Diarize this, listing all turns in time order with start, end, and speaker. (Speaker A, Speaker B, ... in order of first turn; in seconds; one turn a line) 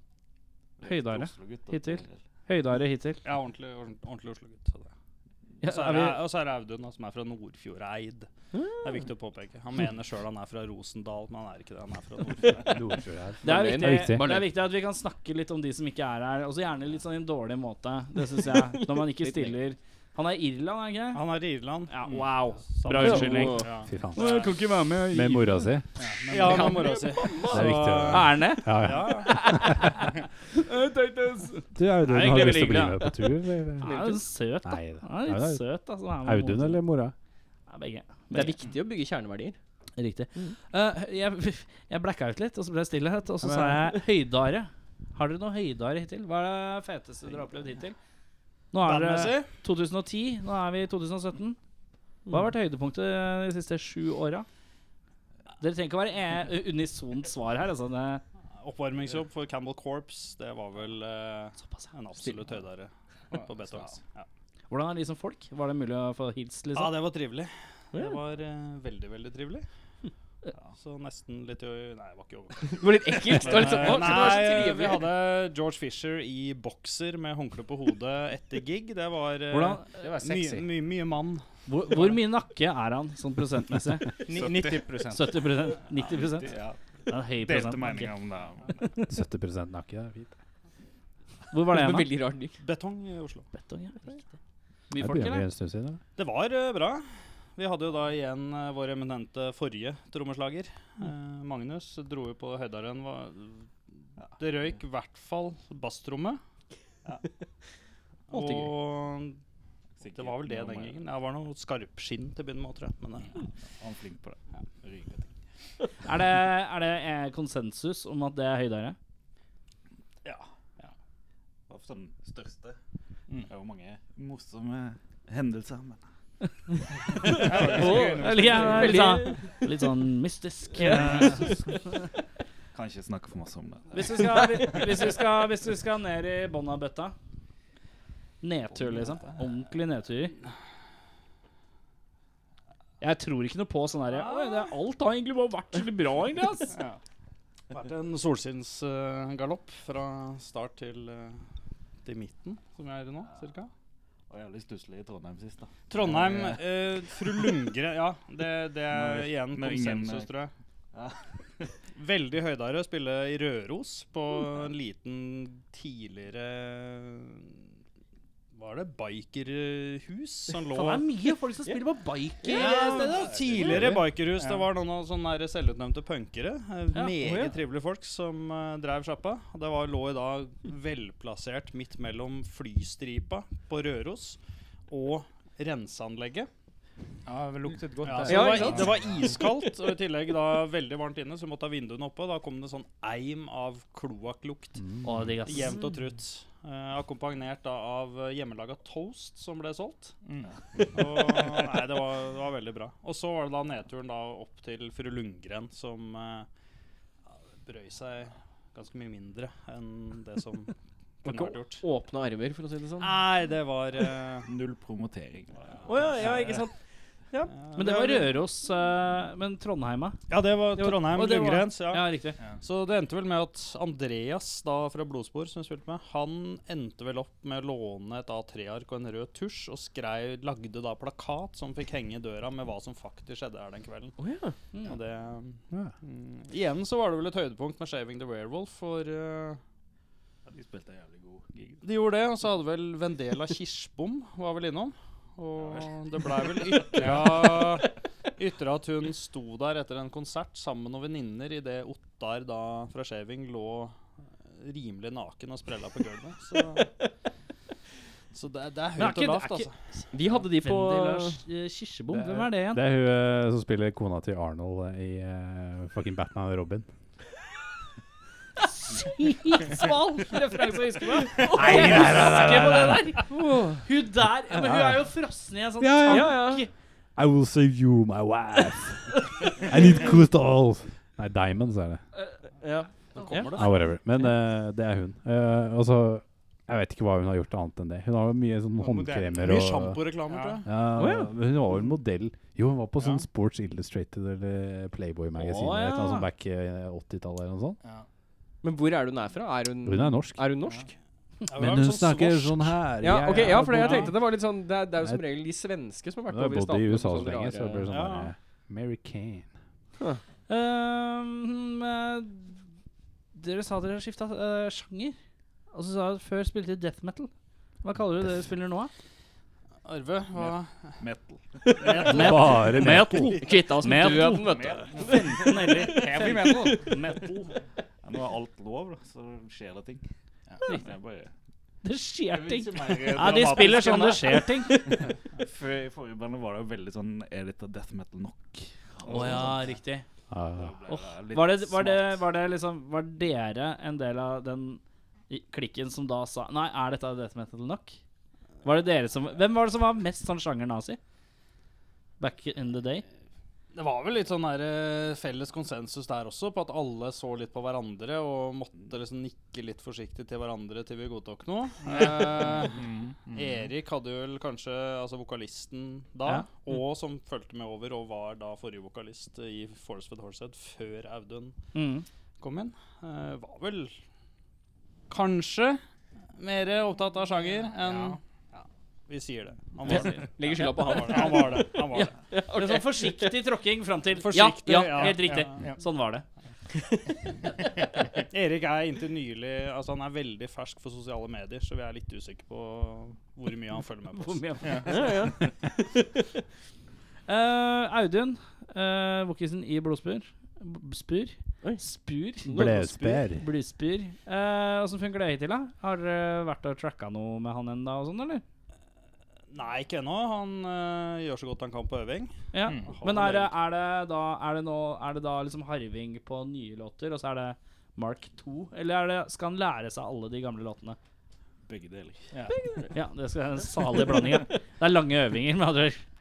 Speaker A: 0.8-2.2
Speaker B: 0.8-3.2
Speaker C: 3.2-4.9
Speaker B: 5.6-6.2
Speaker C: 5.6-12.9
Speaker D: 8.5-8.9
Speaker E: 12.7-14.4
Speaker D: 13.4-14.4
Speaker B: 13.4-21.2
Speaker C: 21.1-24.5
Speaker B: 21.9-25.6
Speaker D: 23.0-23.7
Speaker E: 23.9-24.2
Speaker E: 25.1-25.9
Speaker F: 26.0-27.3
Speaker C: 26.3-29.7
Speaker D: 26.5-27.6
Speaker E: 27.5-30.0
Speaker B: 28.1-33.1
Speaker E: 31.7-33.9
Speaker D: 33.8-34.2
Speaker B: 33.8-36.8
Speaker E: 34.6-35.6
Speaker E: 36.2-37.1
Speaker B: 37.7-38.6
Speaker D: 38.3-39.6
Speaker B: 40.0-48.0
Speaker E: 43.4-43.8
Speaker B: 48.7-51.6
Speaker C: 48.8-49.5
Speaker B: 52.3-54.5
Speaker B: 55.6-58.2
Speaker C: 58.6-64.3
Speaker B: 64.7-67.0
Speaker C: 66.7-69.7
Speaker C: 70.8-82.1
Speaker D: 72.7-75.1
Speaker B: 79.5-79.9
Speaker F: 79.9-80.7
Speaker B: 81.7-84.3
Speaker F: 84.2-85.4
Speaker A: 84.3-84.8
Speaker B: 85.0-86.5
Speaker A: 85.9-88.9
Speaker B: 87.1-88.2
Speaker E: 89.1-90.3
Speaker B: 91.5-92.1
Speaker D: 91.7-92.5
Speaker C: 92.6-93.5
Speaker B: 93.5-94.2
Speaker B: 94.9-95.5
Speaker E: 95.0-96.0
Speaker C: 96.2-97.0
Speaker C: 97.5-103.7
Speaker A: 104.2-104.7
Speaker C: 104.4-106.4
Speaker C: 108.3-109.4
Speaker A: 110.0-111.1
Speaker C: 110.1-113.4
Speaker A: 113.4-115.3
Speaker B: 116.0-119.0
Speaker A: 121.7-122.8
Speaker A: 123.4-126.0
Speaker B: 127.2-131.5
Speaker F: 127.3-129.1
Speaker C: 127.4-129.1
Speaker D: 127.7-129.5
Speaker A: 130.9-131.5
Speaker A: 132.7-135.1
Speaker B: 133.9-137.1
Speaker B: 138.4-140.3
Speaker A: 138.7-139.6
Speaker B: 143.0-146.8
Speaker C: 144.1-144.7
Speaker C: 147.7-151.4
Speaker C: 152.0-153.7
Speaker A: 154.3-157.6
Speaker C: 155.9-160.5
Speaker A: 158.8-160.4
Speaker A: 160.9-161.7
Speaker C: 161.9-167.6
Speaker C: 168.5-171.1
Speaker B: 170.7-173.9
Speaker C: 172.4-186.5
Speaker D: 172.5-172.9
Speaker A: 173.2-174.0
Speaker F: 174.4-174.6
Speaker D: 177.2-177.5
Speaker F: 187.2-189.4
Speaker C: 188.0-200.2
Speaker D: 188.2-189.5
Speaker E: 194.9-195.3
Speaker B: 195.0-195.8
Speaker A: 200.8-201.4
Speaker C: 200.9-206.5
Speaker C: 207.6-211.8
Speaker D: 211.2-213.2
Speaker C: 213.0-214.5
Speaker A: 214.4-216.2
Speaker D: 215.8-216.7
Speaker C: 217.5-218.4
Speaker B: 217.8-222.4
Speaker C: 220.3-234.2
Speaker D: 234.2-234.6
Speaker C: 234.8-239.6
Speaker A: 240.4-241.8
Speaker C: 241.8-254.0
Speaker A: 245.6-245.9
Speaker F: 246.9-247.5
Speaker C: 254.5-256.9
Speaker C: 258.3-259.8
Speaker B: 259.0-262.8
Speaker D: 260.1-261.4
Speaker E: 262.7-266.9
Speaker B: 268.6-276.7
Speaker E: 271.5-273.1
Speaker D: 273.3-273.8
Speaker E: 274.5-275.0
Speaker E: 275.8-276.5
Speaker D: 276.1-276.6
Speaker E: 277.1-282.0
Speaker B: 282.1-284.3
Speaker D: 282.6-283.5
Speaker C: 283.1-283.7
Speaker E: 283.5-290.0
Speaker F: 288.8-289.6
Speaker C: 289.4-290.7
Speaker F: 290.2-290.6
Speaker E: 290.6-297.8
Speaker D: 290.9-291.3
Speaker C: 293.0-293.2
Speaker B: 295.4-296.3
Speaker D: 298.6-300.9
Speaker E: 299.8-300.5
Speaker C: 301.5-302.8
Speaker E: 301.5-304.1
Speaker D: 303.0-307.9
Speaker E: 306.3-309.5
Speaker C: 307.9-308.3
Speaker B: 310.5-312.6
Speaker B: 313.3-315.1
Speaker B: 315.7-317.3
Speaker B: 317.8-318.9
Speaker C: 319.8-321.0
Speaker A: 320.3-322.3
Speaker C: 321.8-322.8
Speaker B: 322.0-327.5
Speaker E: 322.1-323.3
Speaker D: 323.4-326.9
Speaker A: 324.0-326.7
Speaker F: 325.8-326.8
Speaker A: 328.0-330.0
Speaker A: 330.7-331.3
Speaker B: 331.8-334.9
Speaker A: 332.2-339.8
Speaker C: 333.1-334.6
Speaker B: 339.0-340.0
Speaker E: 340.3-340.7
Speaker A: 340.5-342.3
Speaker B: 340.9-348.0
Speaker B: 348.6-351.0
Speaker B: 352.2-353.0
Speaker C: 353.7-371.6
Speaker F: 361.9-363.5
Speaker B: 371.7-372.0
Speaker C: 372.4-374.0
Speaker C: 375.1-375.8
Speaker C: 376.4-382.2
Speaker F: 377.8-378.2
Speaker B: 379.8-386.2
Speaker D: 379.9-383.4
Speaker C: 384.1-385.5
Speaker F: 385.0-385.8
Speaker C: 388.1-394.9
Speaker B: 394.1-395.1
Speaker F: 394.6-395.0
Speaker D: 394.9-395.5
Speaker B: 397.3-408.4
Speaker D: 402.5-403.2
Speaker E: 402.5-403.4
Speaker C: 409.5-413.5
Speaker B: 412.5-421.0
Speaker F: 412.6-413.0
Speaker A: 421.6-422.4
Speaker F: 422.3-422.6
Speaker D: 422.5-422.9
Speaker B: 422.9-426.0